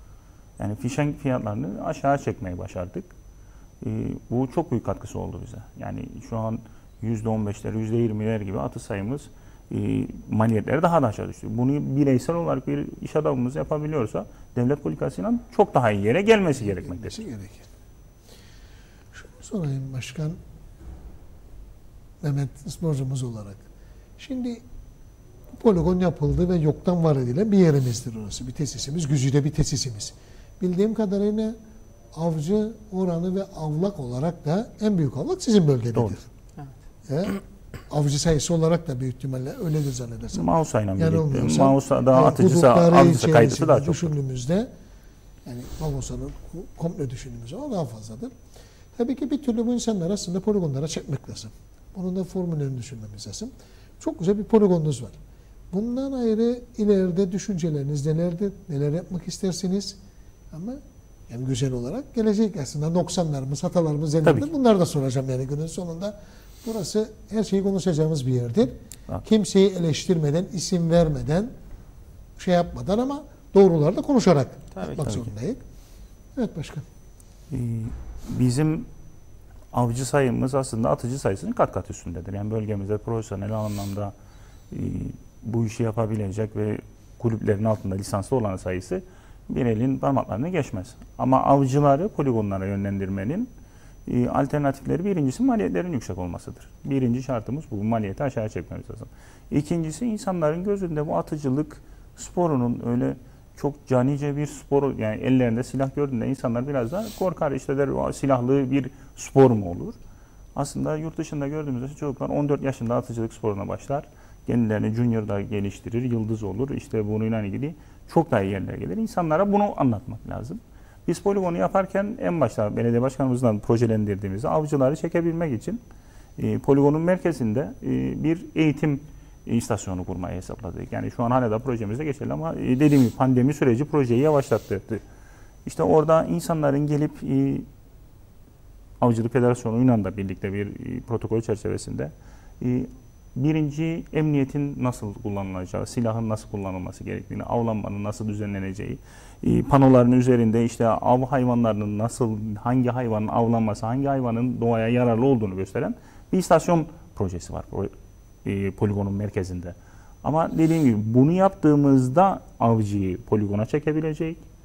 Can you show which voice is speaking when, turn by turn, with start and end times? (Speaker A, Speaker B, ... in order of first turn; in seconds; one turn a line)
Speaker A: 0.6-3.1
Speaker A: 3.8-17.2
Speaker B: 16.6-17.7
Speaker B: 19.1-20.4
Speaker B: 22.2-23.6
Speaker B: 24.2-24.6
Speaker B: 25.5-31.5
Speaker B: 32.1-36.2
Speaker B: 37.1-44.7
Speaker A: 40.3-44.1
Speaker B: 45.4-48.3
Speaker B: 48.9-55.2
Speaker B: 55.7-60.0
Speaker B: 60.5-71.5
Speaker B: 72.4-75.6
Speaker A: 75.0-75.3
Speaker B: 76.3-76.8
Speaker A: 77.5-78.9
Speaker A: 79.7-84.1
Speaker A: 84.7-93.5
Speaker A: 94.0-110.0
Speaker A: 110.5-125.8
Speaker A: 126.4-135.0
Speaker A: 135.7-137.7
Speaker A: 139.0-157.9
Speaker A: 158.4-164.4